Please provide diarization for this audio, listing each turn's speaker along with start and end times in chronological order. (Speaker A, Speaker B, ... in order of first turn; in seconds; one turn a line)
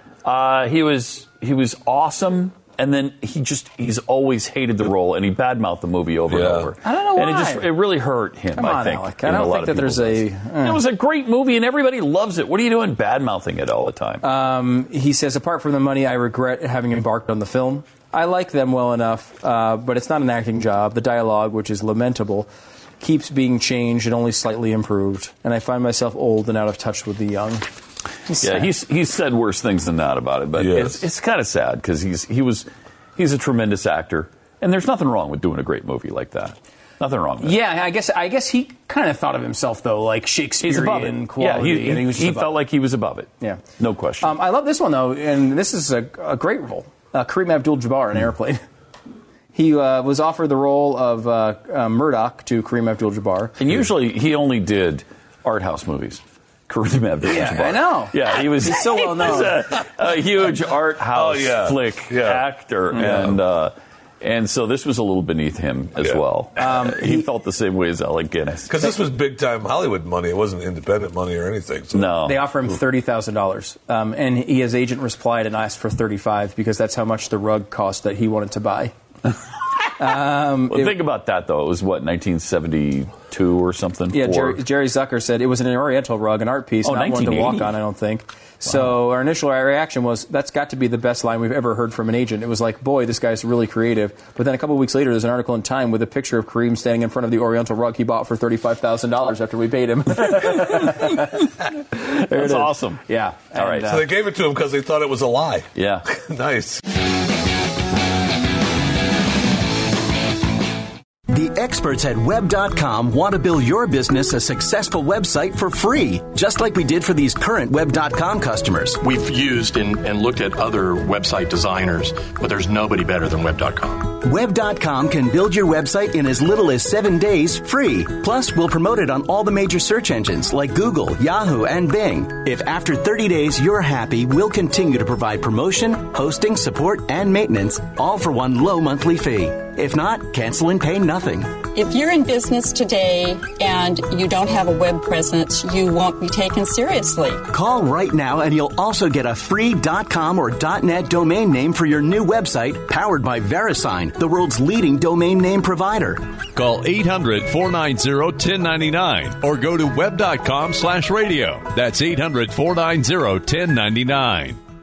Speaker A: 0.2-14.2
Speaker B: 6.3-6.7
Speaker C: 6.8-7.7
Speaker C: 8.5-10.8
Speaker C: 14.2-27.6
Speaker C: 28.3-28.7
Speaker A: 28.4-37.6
Speaker B: 30.6-31.1
Speaker C: 37.4-42.6
Speaker A: 40.6-44.3
Speaker C: 44.2-48.6
Speaker C: 49.5-53.6
Speaker A: 53.6-68.8
Speaker C: 57.2-59.6
Speaker B: 61.1-63.4
Speaker C: 66.6-67.3
Speaker B: 68.7-72.2
Speaker A: 71.9-72.4
Speaker C: 72.2-78.9
Speaker C: 80.0-81.0
Speaker A: 80.7-84.6
Speaker C: 84.1-104.1
Speaker A: 86.8-87.7
Speaker A: 102.3-103.0
Speaker A: 103.5-104.0
Speaker B: 103.9-106.8
Speaker A: 105.8-106.1
Speaker D: 111.3-119.0
Speaker E: 119.0-124.2
Speaker D: 124.2-141.5
Speaker F: 141.7-147.4
Speaker D: 147.5-156.2
Speaker G: 156.6-164.6